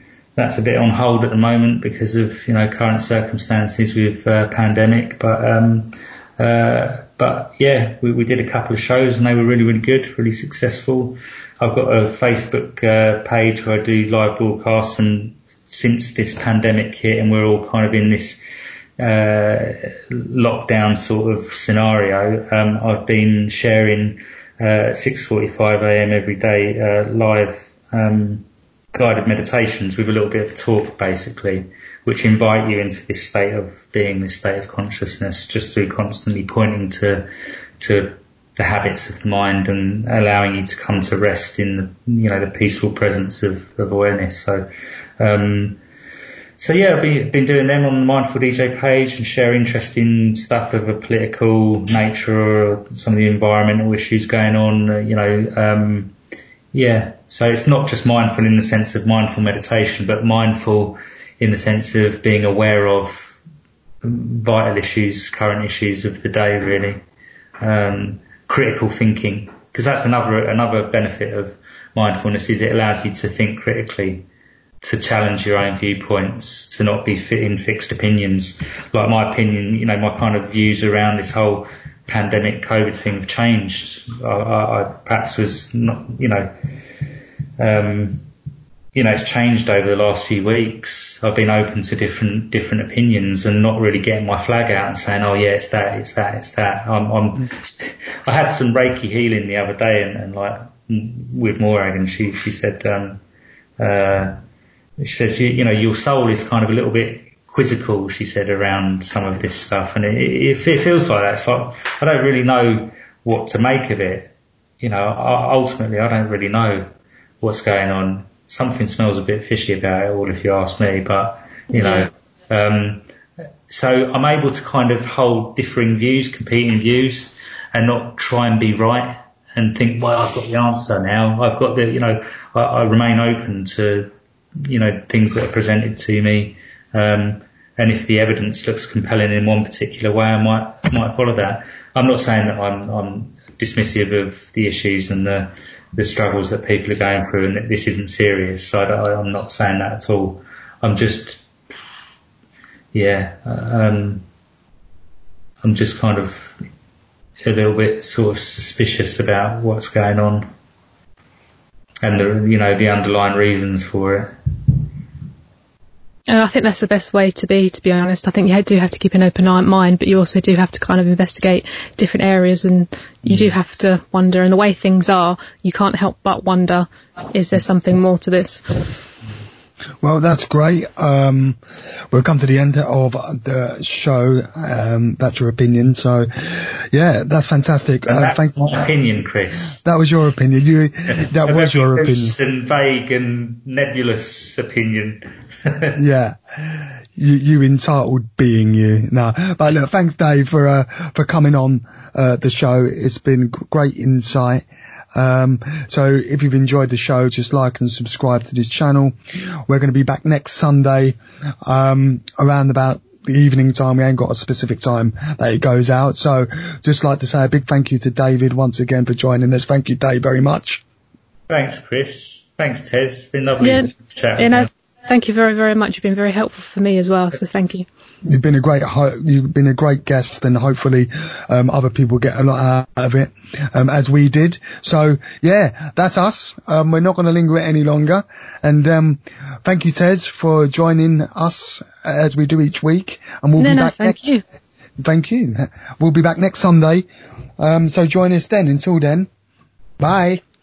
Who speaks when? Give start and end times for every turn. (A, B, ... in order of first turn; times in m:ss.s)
0:00.4-0:18.4 A
0:19.0-0:37.3 A
0:37.8-0:44.7 A
0:45.2-0:45.8 A
0:46.6-0:56.1 A
0:56.7-1:03.4 A
1:04.0-1:07.0 A
1:07.6-1:14.2 A
1:14.8-1:26.5 A
1:27.6-1:28.3 A
1:28.9-1:43.2 A
1:43.8-1:44.4 A
1:45.0-1:56.9 A
1:57.4-2:03.0 A
2:01.8-2:02.1 B
2:03.7-2:14.1 A
2:14.6-2:31.5 A
2:32.9-2:34.2 A
2:35.6-2:36.6 A
2:37.4-2:40.5 A
2:42.0-2:44.8 A
2:46.3-2:59.0 B
3:00.0-3:01.6 C
3:02.1-3:08.8 C
3:08.0-3:09.8 A
3:09.8-3:12.3 C
3:11.1-3:16.0 A
3:15.9-3:40.8 C
3:41.5-3:44.7 A
3:43.6-3:47.9 B
3:48.2-4:04.2 C
4:03.6-4:04.4 B
4:05.0-4:07.0 C
4:07.6-4:09.3 C
4:10.0-4:10.4 C